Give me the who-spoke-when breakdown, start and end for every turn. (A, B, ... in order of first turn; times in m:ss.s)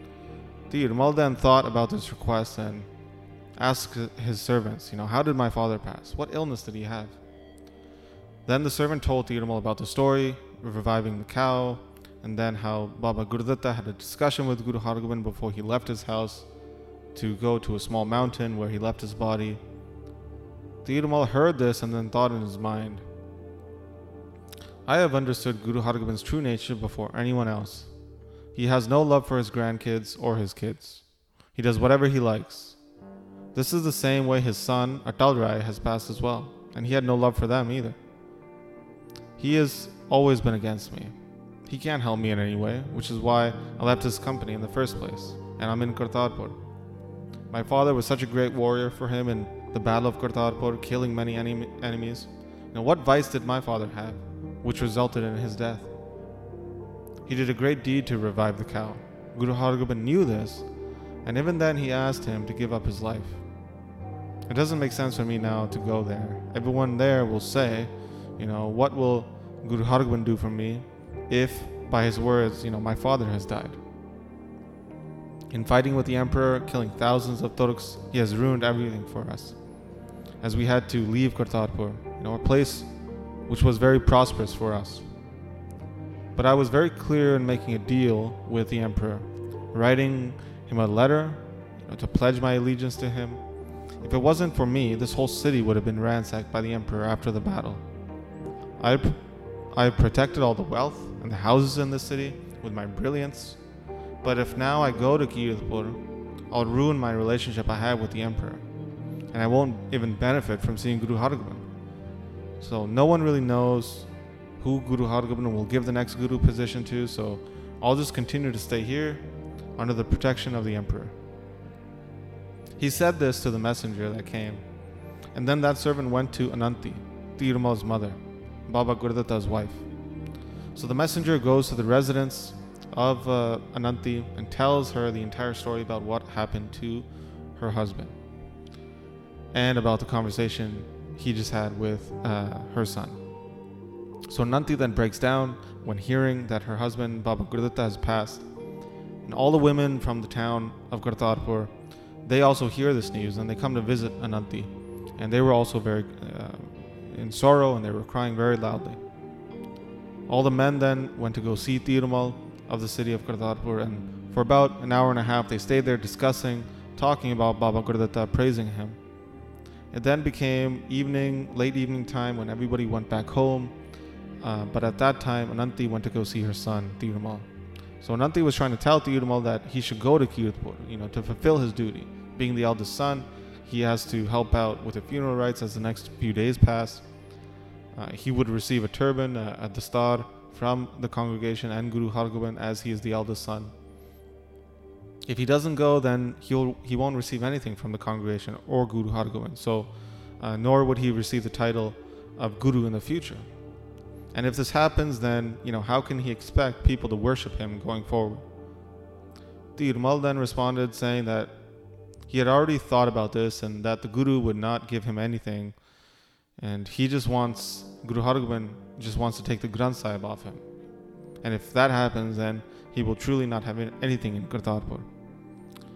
0:00.7-0:02.9 A
0:03.6-0:07.2 A
0:08.4-0:16.5 A
0:17.1-0:19.6 A
0:20.8-0:23.0 A
0:24.8-0:27.9 A
0:28.5-0:32.8 A
0:33.5-0:38.0 A
0:39.4-0:41.1 A
0:41.6-0:46.6 A
0:47.5-0:55.9 A
0:57.2-1:00.6 A
1:01.2-1:03.4 A
1:04.5-1:13.8 A
1:15.5-1:19.6 A
1:20.4-1:22.9 A
1:23.5-1:25.0 A
1:26.4-1:33.4 A
1:34.0-1:37.8 A
1:38.8-1:39.2 A
1:39.7-1:43.6 A
1:44.2-1:48.6 A
1:49.3-1:51.6 A
1:52.6-1:59.2 A
1:59.8-2:01.1 A
2:02.8-2:04.6 A
2:05.3-2:09.8 A
2:10.7-2:18.2 A
2:19.5-2:23.2 A
2:24.3-2:28.4 A
2:29.2-2:31.7 A
2:32.2-2:39.0 A
2:40.3-2:49.0 A
2:49.9-2:53.7 A
2:54.4-2:57.5 A
2:58.0-3:07.0 A
3:07.9-3:13.7 A
3:15.2-3:23.5 A
3:24.3-3:28.4 A
3:29.8-3:31.5 A
3:32.3-3:35.8 A
3:36.6-3:40.6 A
3:41.4-3:45.1 A